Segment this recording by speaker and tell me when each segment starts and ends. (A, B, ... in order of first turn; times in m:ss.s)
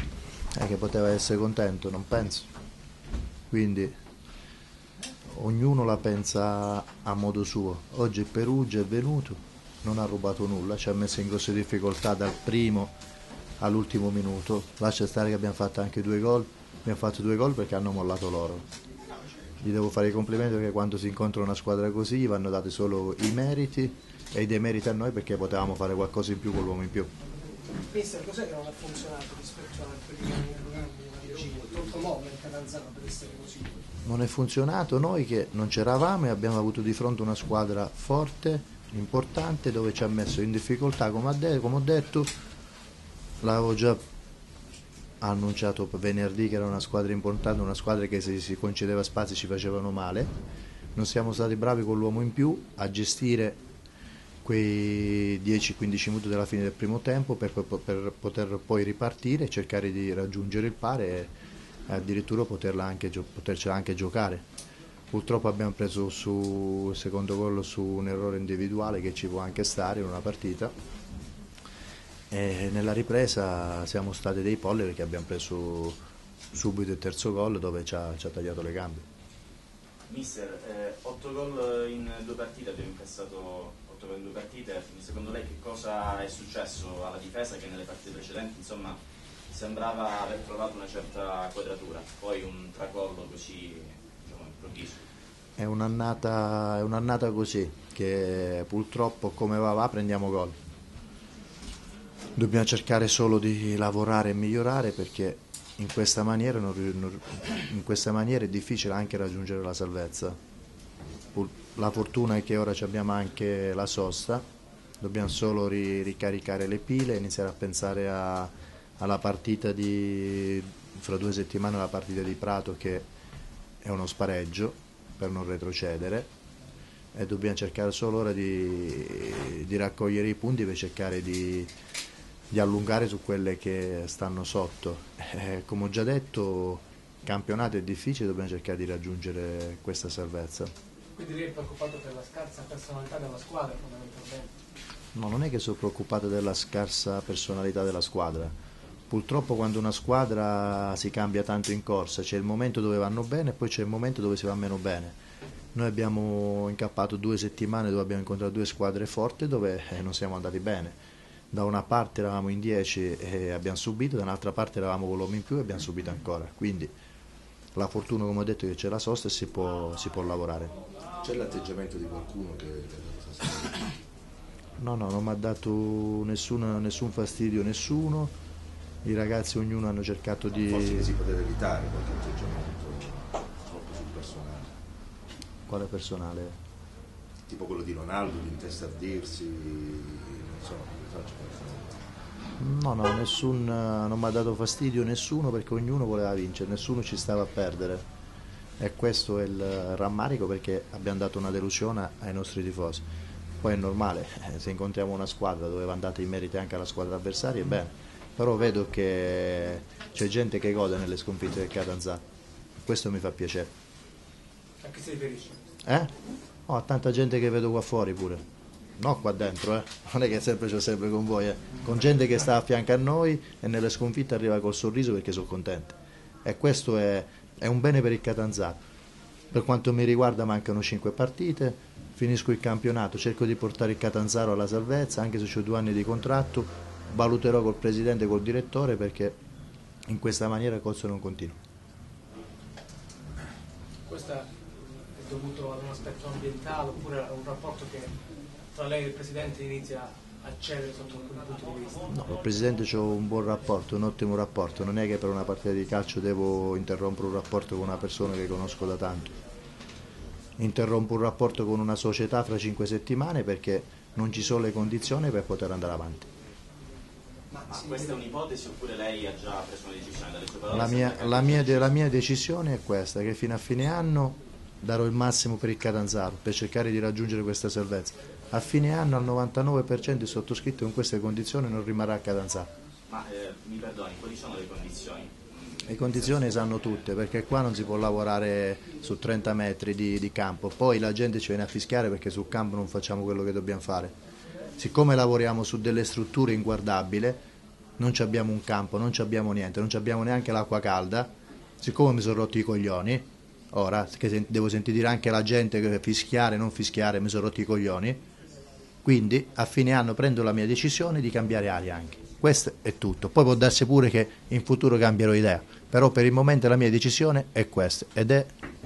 0:00.5-0:02.5 A
0:03.5-0:04.0 A
0:05.3-0:12.9 A
0:13.6-0:18.7 A
0:19.6-0:27.1 A
0:27.8-0:33.8 B
0:34.0-0:42.3 A
0:43.4-0:44.0 A
0:45.2-0:50.3 A
0:51.0-0:53.6 A
0:54.4-1:01.3 A
1:01.9-1:04.4 A
1:05.1-1:10.7 A
1:12.3-1:16.0 A
1:16.5-1:19.0 A
1:20.1-1:35.0 C
1:35.6-1:40.6 A
1:42.4-1:50.4 A
1:51.3-1:54.4 A
1:55.0-2:03.1 A
2:03.8-2:06.3 A
2:07.1-2:11.7 A
2:12.5-2:20.7 A
2:21.2-2:24.5 B
2:25.1-2:28.5 A
2:29.1-2:35.2 A
2:35.7-2:41.0 A
2:41.5-2:46.9 A
2:47.8-2:50.7 A
2:51.2-2:53.9 D
2:54.8-2:58.3 A
2:59.0-3:01.1 A
3:00.6-3:04.8 D
3:05.7-3:06.6 A
3:07.5-3:12.0 D
3:12.6-3:18.0 A
3:18.8-3:23.1 A
3:23.6-3:32.2 A
3:32.8-3:33.7 A
3:34.8-3:35.6 B
3:35.8-3:36.1 A
3:36.7-3:38.4 A
3:39.0-3:48.8 A
3:49.5-3:59.4 A
4:00.1-4:01.6 A
4:04.1-4:04.5 B
4:05.1-4:08.1 B
4:08.7-4:12.1 B
4:12.1-4:19.4 A
4:20.6-4:26.3 A
4:27.5-4:28.2 B
4:27.7-4:31.9 C
4:30.7-4:42.7 A
4:43.1-4:46.7 C
4:45.9-4:54.2 A
4:54.8-4:57.4 A
4:58.0-5:08.2 A
5:09.0-5:18.5 A